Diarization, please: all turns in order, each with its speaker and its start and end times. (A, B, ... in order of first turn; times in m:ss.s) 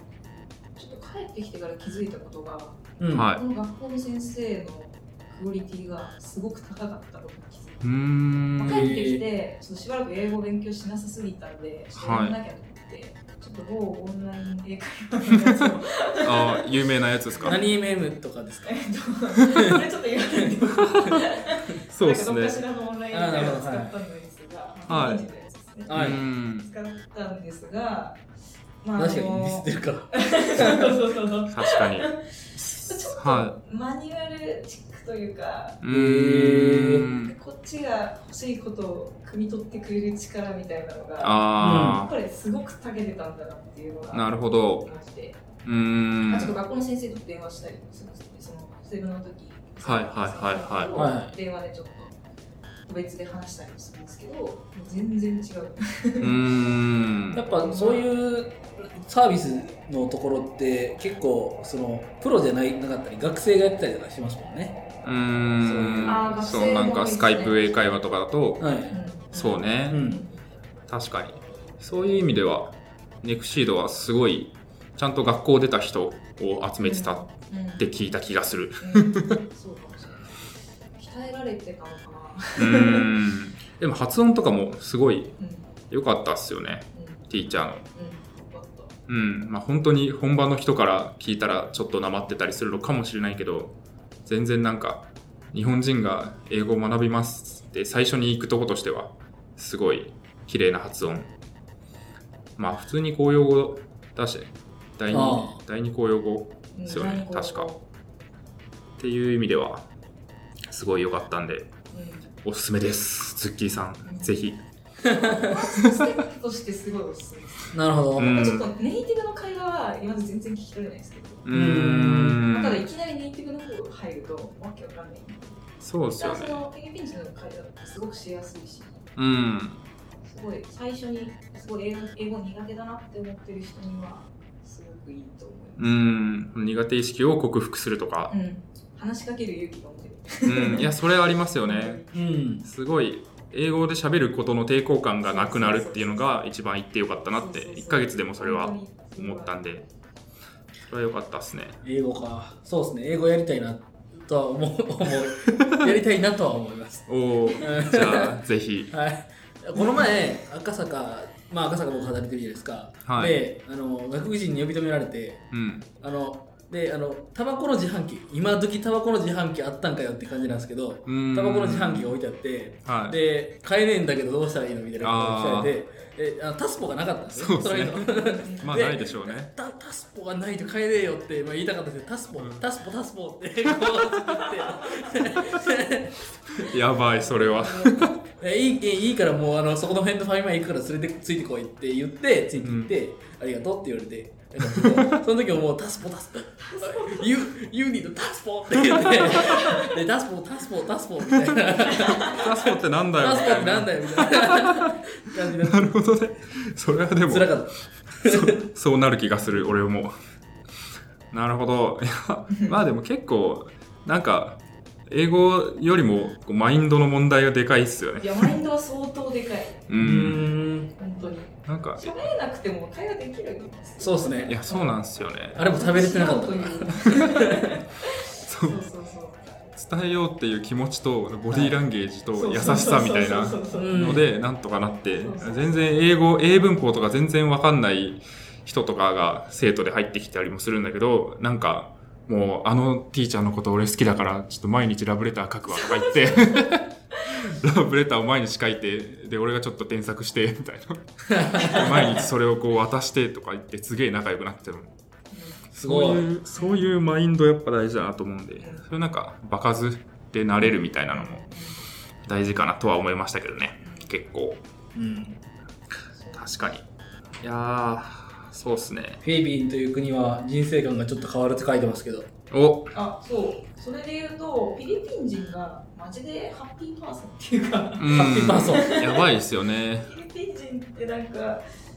0:00.8-0:07.8 A
0:03.0-0:03.3 B
0:03.1-0:03.4 C
0:07.8-0:08.9 C
0:08.5-0:17.9 A
0:08.7-0:09.2 B
0:11.9-0:12.4 C
0:16.2-0:17.6 C
0:17.4-0:18.8 B
0:18.6-0:28.2 A
0:20.8-0:21.2 B
0:21.9-0:22.6 C
0:23.1-0:23.9 B
0:24.9-0:25.2 C
0:25.9-0:26.2 B
0:25.9-0:26.7 C
0:28.8-0:32.2 A
0:29.0-0:30.9 B
0:31.5-0:33.5 C
0:32.8-0:35.8 A
0:35.8-0:37.3 C
0:35.9-0:37.1 B
0:37.1-0:45.4 A
0:41.2-0:42.1 C
0:41.6-0:42.0 B
0:44.1-0:44.9 C
0:45.6-0:46.5 C
0:46.3-0:52.2 A
0:49.8-0:51.0 C
0:51.0-0:51.3 B
0:52.8-0:56.4 A
0:56.2-0:57.4 C
0:57.3-1:04.8 B
0:57.5-0:58.0 A
1:05.0-1:08.7 C
1:05.6-1:06.3 B
1:06.0-1:07.9 A
1:08.6-1:08.9 B
1:08.9-1:10.4 A
1:09.3-1:10.1 C
1:09.9-1:10.2 B
1:10.9-1:19.4 C
1:16.8-1:17.8 A
1:18.8-1:23.1 A
1:22.6-1:25.4 C
1:25.4-1:25.7 A
1:25.9-1:27.8 C
1:26.9-1:27.3 A
1:27.9-1:28.9 A
1:29.1-1:41.3 C
1:42.6-1:47.7 C
1:45.1-1:45.6 B
1:46.7-1:47.8 A
1:49.0-1:49.8 C
1:50.7-1:51.7 C
1:51.9-1:52.3 A
1:52.4-1:54.6 C
1:54.0-1:54.3 A
1:55.0-2:01.4 A
1:55.0-1:55.4 B
1:57.7-1:58.4 B
1:58.2-1:58.7 C
2:01.4-2:02.8 C
2:01.5-2:02.4 B
2:02.4-2:05.6 A
2:05.8-2:06.6 C
2:06.2-2:09.0 A
2:09.2-2:09.8 C
2:10.2-2:16.1 A
2:15.8-2:18.3 C
2:18.3-2:22.2 A
2:20.4-2:22.0 C
2:22.1-2:22.6 B
2:22.6-2:29.8 C
2:25.2-2:26.3 A
2:27.3-2:29.6 A
2:30.9-2:31.8 C
2:31.8-2:37.1 B
2:35.6-2:35.9 C
2:37.1-2:38.9 C
2:37.6-2:38.4 B
2:38.9-2:45.4 B
2:43.0-2:43.4 C
2:45.5-2:45.9 C
2:46.0-3:06.7 B
2:51.0-2:52.1 C
2:52.8-2:53.2 C
2:55.0-2:55.7 C
2:57.3-2:59.5 C
2:58.2-2:58.9 A
3:02.4-3:02.6 C
3:06.6-3:08.1 C
3:07.4-3:26.0 B
3:12.6-3:12.9 C
3:14.7-3:15.1 C
3:16.6-3:17.3 A
3:19.2-3:20.0 A
3:21.9-3:22.4 A
3:22.1-3:25.0 C
3:25.5-3:27.6 C
3:27.3-3:27.7 B
3:28.2-3:30.1 C
3:28.2-3:28.5 B
3:31.3-3:38.5 C
3:38.2-3:39.8 A
3:39.9-3:40.5 C
3:40.0-3:40.9 B
3:41.0-3:45.0 A
3:41.7-3:42.2 C
3:44.0-3:44.6 B
3:44.5-3:45.6 C
3:45.5-3:49.6 A
3:45.5-3:47.7 B
3:48.4-3:48.8 C
3:49.7-4:14.9 C
3:51.5-3:51.8 B
3:52.3-3:54.1 A
3:53.7-3:54.2 B
3:55.2-3:56.0 A
4:05.7-4:06.7 A
4:11.3-4:11.9 B
4:11.4-4:12.0 A
4:15.3-4:15.6 A
4:15.7-4:21.4 C
4:15.7-4:16.3 B
4:16.5-4:16.9 A
4:18.6-4:18.8 A
4:21.1-4:21.8 A
4:22.2-4:24.6 C
4:23.8-4:24.1 A
4:24.9-4:25.4 B
4:26.1-4:26.7 A
4:26.3-4:26.8 C
4:27.4-4:29.2 C
4:29.2-4:32.3 B
4:32.5-4:32.9 C
4:32.9-4:39.3 A
4:38.0-4:40.1 C
4:38.1-4:38.9 B
4:40.0-4:41.6 A